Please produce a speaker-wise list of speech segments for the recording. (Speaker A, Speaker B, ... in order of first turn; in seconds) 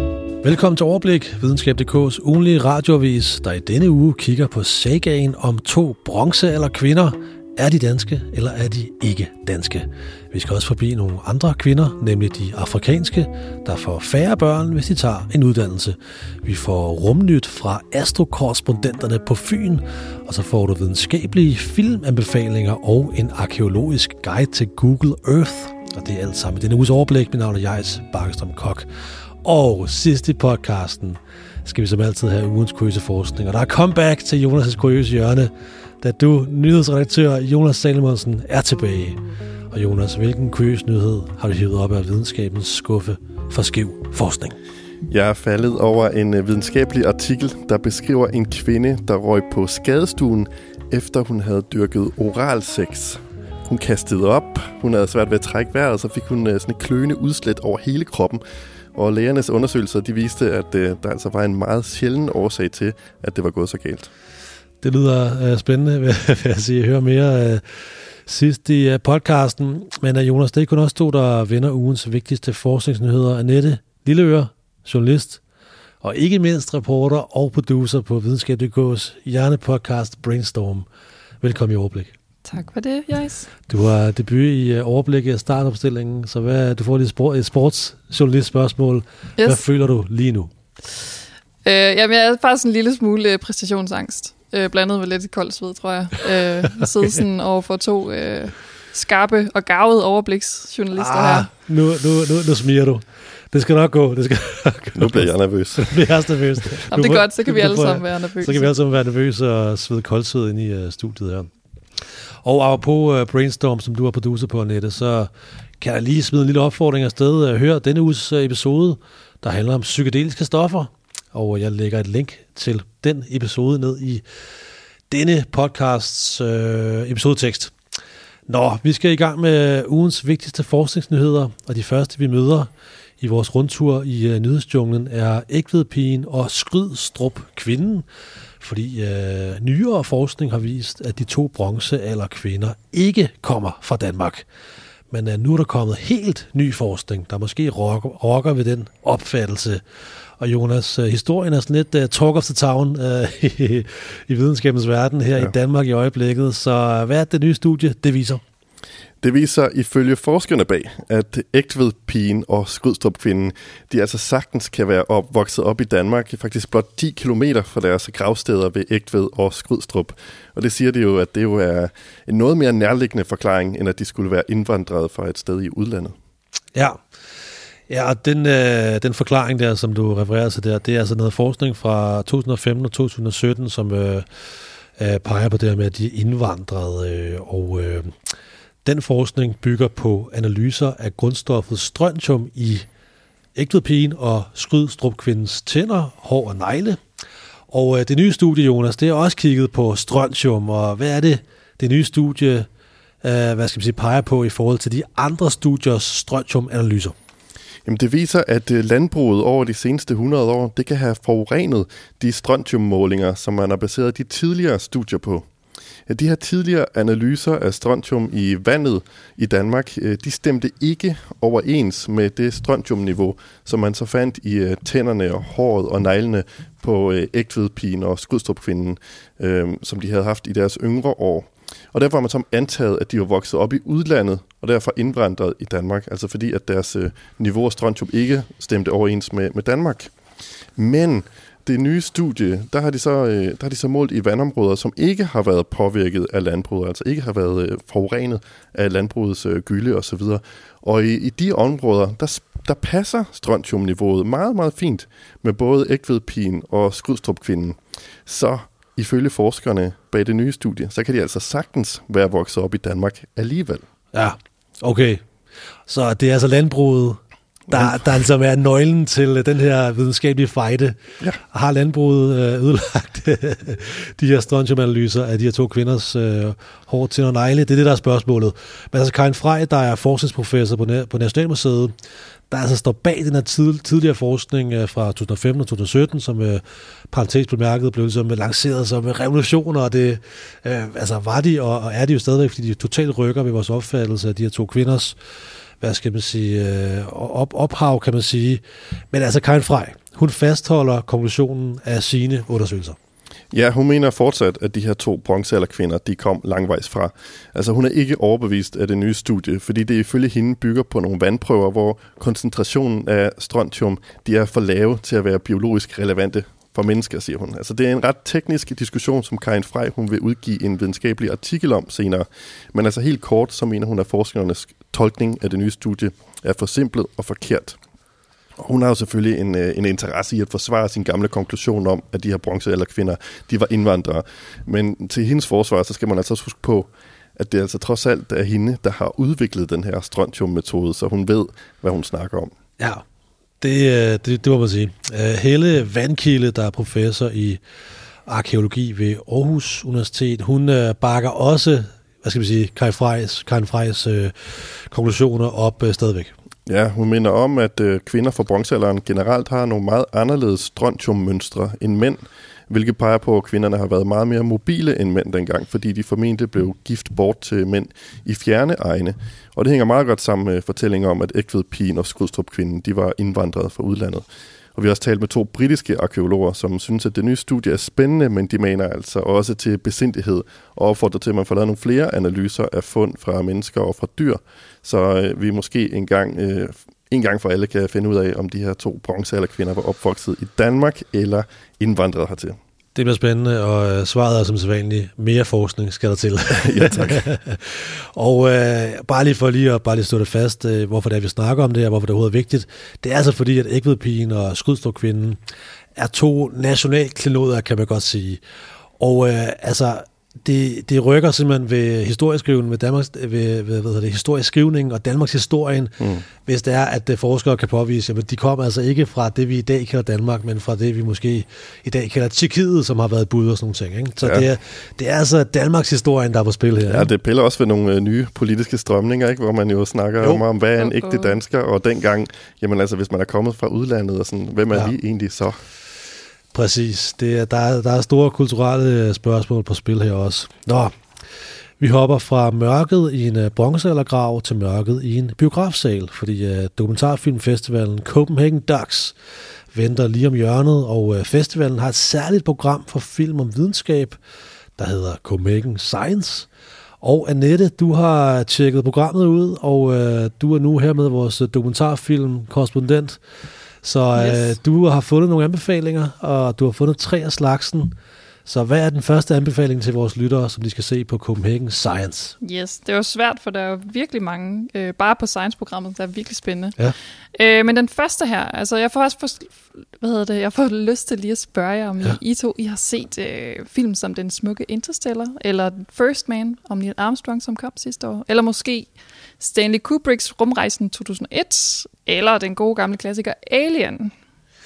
Speaker A: 0.4-28.9, 29.4-39.2, 39.7-44.6, 64.8-75.4, 76.0-80.9, 81.4-82.1, 83.7-90.5, 101.0-111.5, 112.4-115.3, 115.8-124.2, 125.1-127.7, 128.5-132.7, 133.2-138.1, 138.6-144.5, 145.1-149.8, 150.4-158.4, 176.8-177.0, 177.9-184.2, 185.0-188.1, 188.8-192.9, 193.6-197.0, 197.7-202.7, 203.2-207.2, 264.1-265.2, 265.9-271.0, 271.5-281.9, 282.5-295.2, 295.8-303.0, 342.8-343.0, 343.6-347.6, 348.3-356.3, 392.9-405.4, 405.9-408.4, 409.0-427.1, 436.5-440.9, 441.8-449.2, 449.7-454.2, 454.8-456.5, 457.0-463.2, 463.8-467.9, 468.5-472.4
Speaker B: 45.1-58.4, 59.0-64.1, 105.0-105.9, 159.2-176.2, 207.9-215.5, 216.1-240.1, 240.8-263.8, 267.7-268.0, 303.5-327.8, 328.6-342.5, 356.7-392.6, 396.6-397.2, 416.0-416.2, 424.2-424.5, 426.9-435.6
Speaker C: 82.5-83.5, 91.7-101.5, 106.9-108.7, 430.8-431.4, 464.1-464.5, 472.4-476.8, 477.3-494.1